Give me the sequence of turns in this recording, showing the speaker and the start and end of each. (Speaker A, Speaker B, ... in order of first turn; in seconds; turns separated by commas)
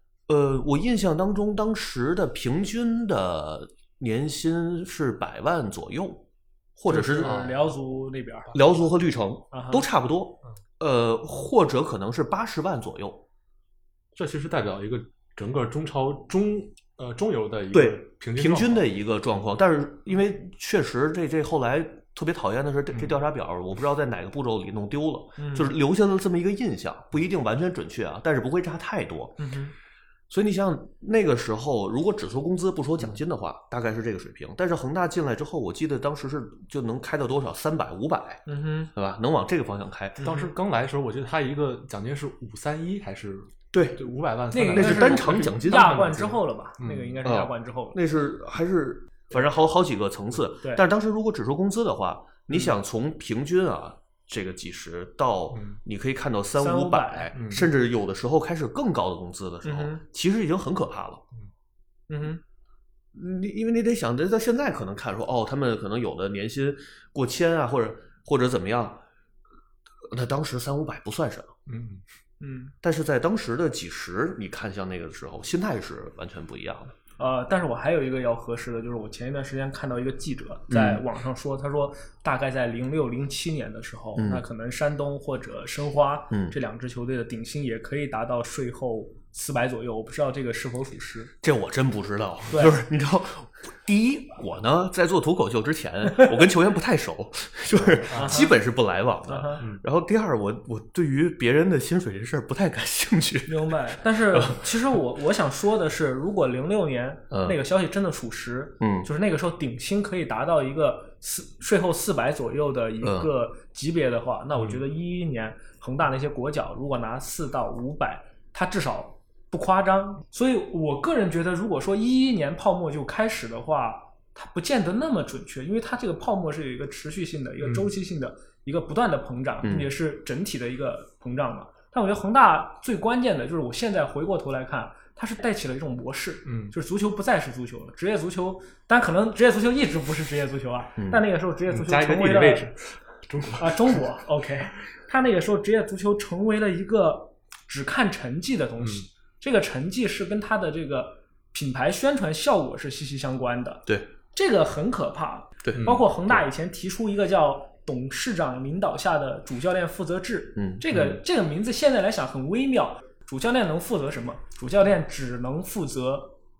Speaker A: 0.3-6.2, Speaker A: 6.8-7.4, Speaker B: 6.9-8.6, Speaker C: 7.2-7.6, Speaker A: 8.5-13.2, Speaker B: 9.5-9.8, Speaker C: 14.1-18.8, Speaker A: 17.7-29.4, Speaker B: 25.4-25.7, Speaker B: 29.4-29.7, Speaker A: 30.3-38.4, Speaker B: 38.5-38.9, Speaker A: 38.9-40.2, Speaker C: 40.2-47.3, Speaker A: 43.7-44.0, Speaker B: 44.5-48.0, Speaker A: 44.7-46.3, Speaker A: 47.2-61.2, Speaker C: 55.5-55.8, Speaker B: 56.6-57.3, Speaker C: 57.3-57.7, Speaker B: 59.6-60.0, Speaker B: 62.1-62.4, Speaker A: 63.1-69.0, Speaker A: 70.1-71.5, Speaker C: 71.7-72.0, Speaker B: 72.4-72.7, Speaker A: 72.8-77.0, Speaker B: 77.2-91.3, Speaker A: 80.7-81.0, Speaker A: 84.2-84.5, Speaker A: 91.4-104.7, Speaker B: 92.5-92.8, Speaker C: 98.1-98.4, Speaker B: 98.1-98.5, Speaker B: 99.3-99.6, Speaker B: 103.5-142.7, Speaker A: 107.3-107.6, Speaker A: 108.8-109.1, Speaker A: 113.0-113.3, Speaker C: 127.6-127.9, Speaker A: 129.6-129.9, Speaker C: 136.4-136.7, Speaker A: 141.0-141.2, Speaker C: 141.7-144.0, Speaker B: 143.5-166.3, Speaker A: 155.6-156.0, Speaker A: 160.6-161.2